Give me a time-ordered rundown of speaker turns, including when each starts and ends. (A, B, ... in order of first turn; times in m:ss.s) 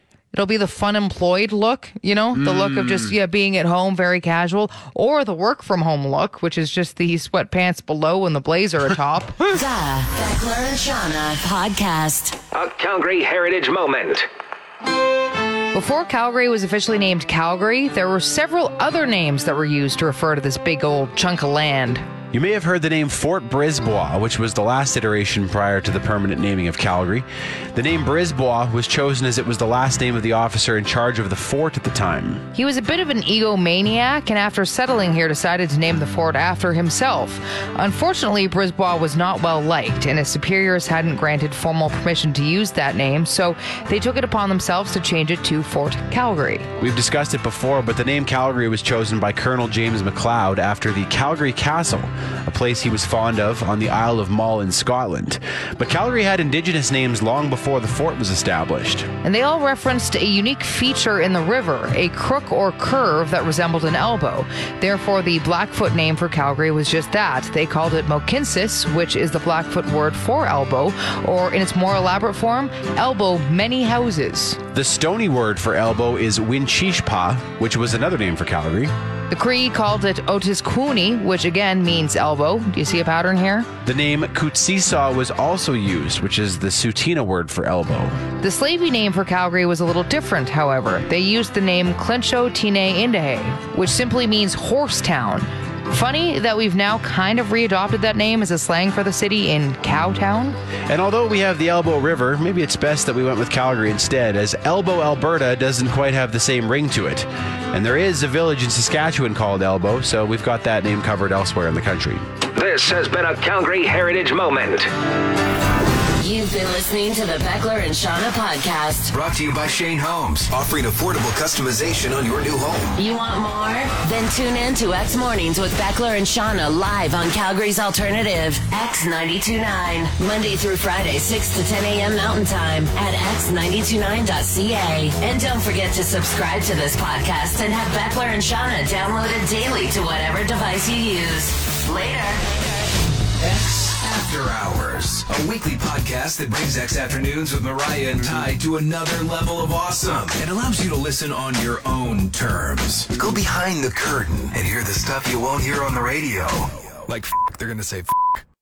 0:00.3-0:09.5 A
0:02.3-0:03.1 B
0:09.5-0:12.4 C
0:12.5-0:14.2 D
0:15.7-0:22.0 A
0:22.3-0:32.4 B
0:32.5-0:46.7 A
0:46.8-0:59.1 B
0:59.2-1:14.6 A
1:14.7-1:18.9 B
1:19.3-1:23.7 A
1:23.8-1:28.2 B
1:28.4-1:40.6 A
1:40.9-1:52.2 B
1:52.5-1:54.9 D
1:56.2-1:59.1 C
1:59.1-2:03.0 E
2:03.0-2:22.4 C
2:23.4-2:38.4 E